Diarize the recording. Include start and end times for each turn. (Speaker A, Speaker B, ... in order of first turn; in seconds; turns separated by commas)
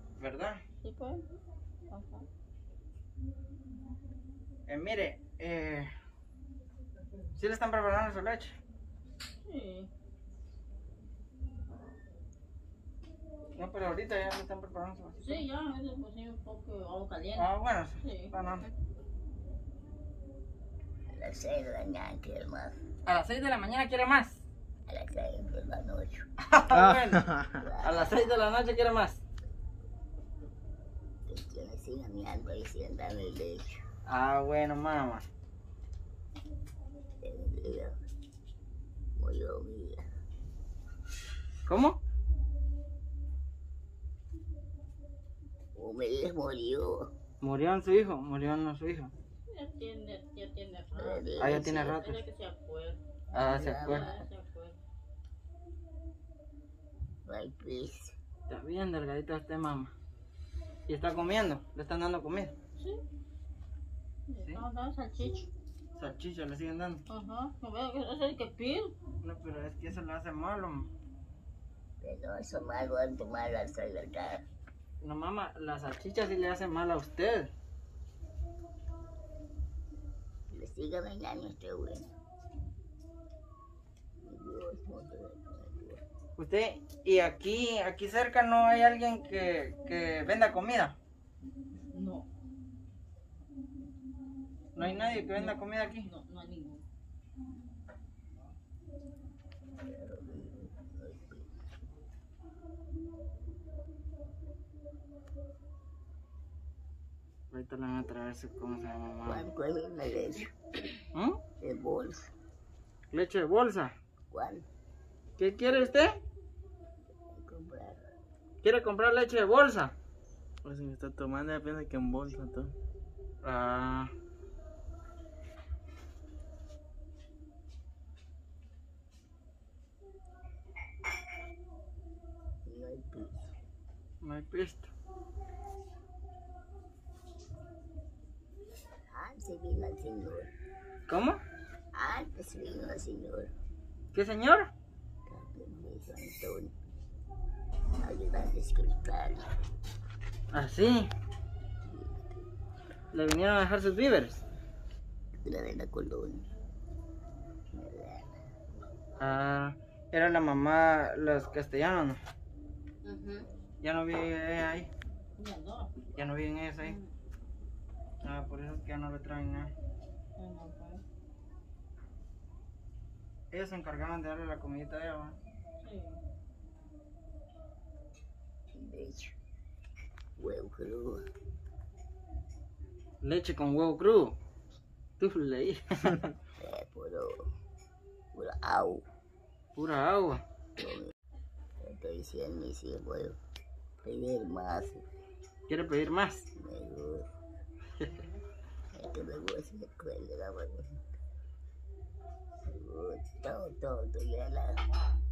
Speaker A: 0.2-0.6, Speaker B: 0.8-1.2, Speaker B: 1.9-2.2, Speaker A: 4.7-5.9, Speaker A: 7.4-8.6, Speaker B: 9.4-9.9, Speaker A: 13.6-15.4, Speaker B: 15.2-18.3, Speaker A: 17.4-18.7, Speaker C: 21.1-22.8, Speaker A: 23.1-24.4, Speaker C: 24.9-26.2, Speaker A: 26.4-27.2, Speaker D: 26.7-27.6, Speaker C: 27.6-28.2, Speaker A: 27.8-29.2, Speaker C: 31.2-33.8, Speaker A: 34.0-35.2, Speaker C: 37.2-38.0, Speaker C: 39.1-40.0, Speaker A: 41.6-42.0, Speaker C: 45.8-47.1, Speaker A: 47.4-49.1, Speaker B: 49.5-54.8, Speaker C: 51.0-52.0, Speaker A: 51.4-52.2, Speaker A: 53.3-54.1, Speaker C: 53.4-54.3, Speaker C: 57.2-58.1, Speaker A: 58.5-59.9, Speaker A: 60.9-62.5, Speaker B: 64.3-65.5, Speaker A: 66.0-67.0, Speaker B: 67.1-68.9, Speaker A: 69.2-70.9, Speaker C: 72.0-74.4, Speaker A: 75.0-77.5, Speaker C: 80.5-82.1, Speaker C: 84.2-86.0, Speaker A: 86.4-91.0, Speaker B: 91.9-92.2, Speaker A: 94.8-96.1, Speaker B: 94.8-96.8, Speaker C: 99.8-101.5, Speaker A: 107.5-109.5, Speaker C: 109.2-110.5, Speaker A: 111.1-111.4, Speaker C: 111.6-112.3, Speaker A: 113.1-114.0, Speaker C: 114.3-114.7, Speaker A: 115.4-116.2, Speaker C: 117.3-118.1, Speaker A: 118.6-119.9, Speaker D: 120.6-122.8, Speaker A: 123.4-124.1, Speaker C: 132.6-133.5, Speaker A: 134.2-134.9, Speaker C: 139.1-140.5, Speaker A: 141.1-141.4, Speaker C: 141.9-143.5, Speaker A: 144.1-144.7, Speaker C: 145.3-146.7, Speaker C: 148.0-149.5, Speaker A: 150.5-151.1, Speaker C: 151.8-152.4, Speaker A: 153.1-154.4, Speaker C: 155.4-156.5, Speaker C: 157.7-158.4, Speaker A: 159.2-162.2, Speaker B: 163.0-163.5, Speaker A: 163.8-164.9, Speaker B: 165.4-165.9, Speaker A: 166.1-167.0, Speaker B: 166.8-167.1, Speaker A: 168.2-169.7, Speaker B: 170.4-171.0, Speaker A: 173.5-175.4, Speaker B: 175.8-176.2, Speaker C: 178.7-179.4, Speaker C: 180.4-181.2, Speaker A: 183.2-184.4, Speaker A: 185.2-186.2, Speaker C: 186.6-187.4, Speaker C: 188.3-189.0, Speaker A: 189.8-190.4, Speaker C: 190.8-191.1, Speaker C: 191.8-193.4, Speaker C: 194.0-195.0, Speaker A: 195.7-196.5, Speaker C: 196.6-197.2, Speaker C: 198.9-200.9, Speaker C: 202.6-204.8